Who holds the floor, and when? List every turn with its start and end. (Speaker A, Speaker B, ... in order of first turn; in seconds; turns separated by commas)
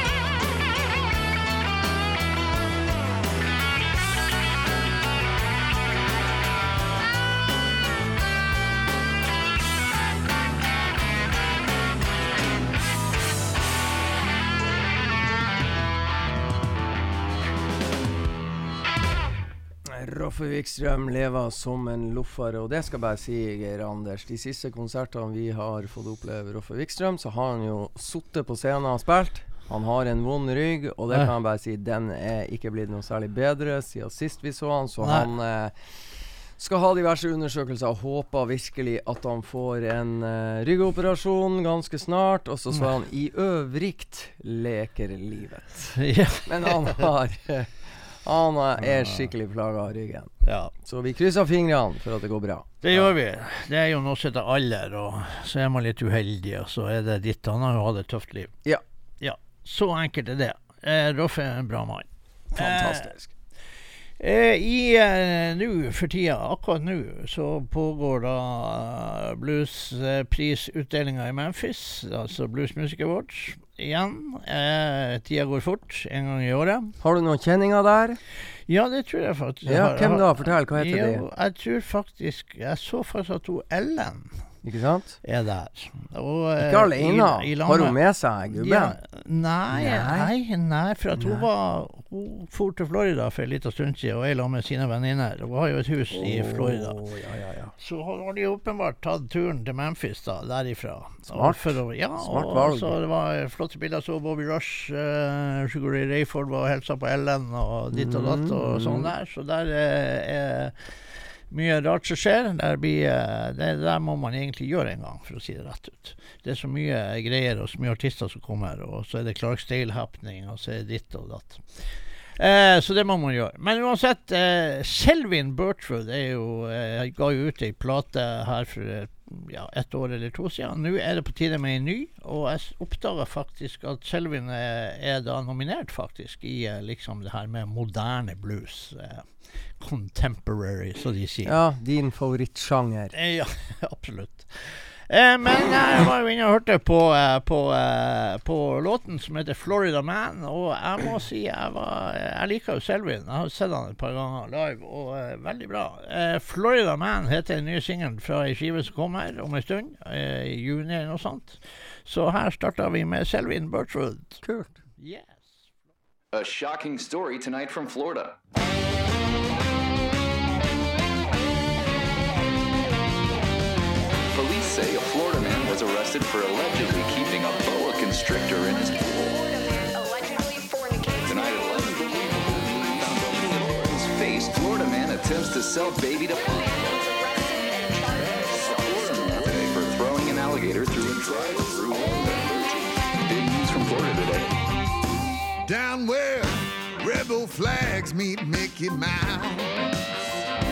Speaker A: 19.9-35.7, Speaker B: 35.0-35.3, Speaker A: 36.6-53.1, Speaker B: 46.0-47.1, Speaker B: 48.8-49.3, Speaker B: 50.4-50.7, Speaker B: 52.8-58.5, Speaker B: 59.2-63.1, Speaker A: 62.5-63.3, Speaker B: 64.2-76.9, Speaker A: 77.0-78.2, Speaker B: 78.7-84.3, Speaker A: 79.6-81.2, Speaker A: 84.6-85.2, Speaker B: 85.2-88.0, Speaker A: 86.6-89.0, Speaker B: 88.5-97.0, Speaker A: 89.7-90.3, Speaker A: 91.2-91.5, Speaker A: 96.1-97.7, Speaker B: 97.8-110.9, Speaker A: 101.3-103.0, Speaker A: 107.9-109.1, Speaker B: 111.5-121.8, Speaker B: 122.4-141.5, Speaker A: 141.4-143.1, Speaker B: 143.1-164.4, Speaker A: 164.4-164.8, Speaker B: 165.0-165.4, Speaker C: 166.3-168.4, Speaker C: 174.3-179.3, Speaker D: 178.9-181.6, Speaker C: 181.2-186.8, Speaker D: 186.4-189.5, Speaker C: 188.3-194.6, Speaker E: 195.7-199.8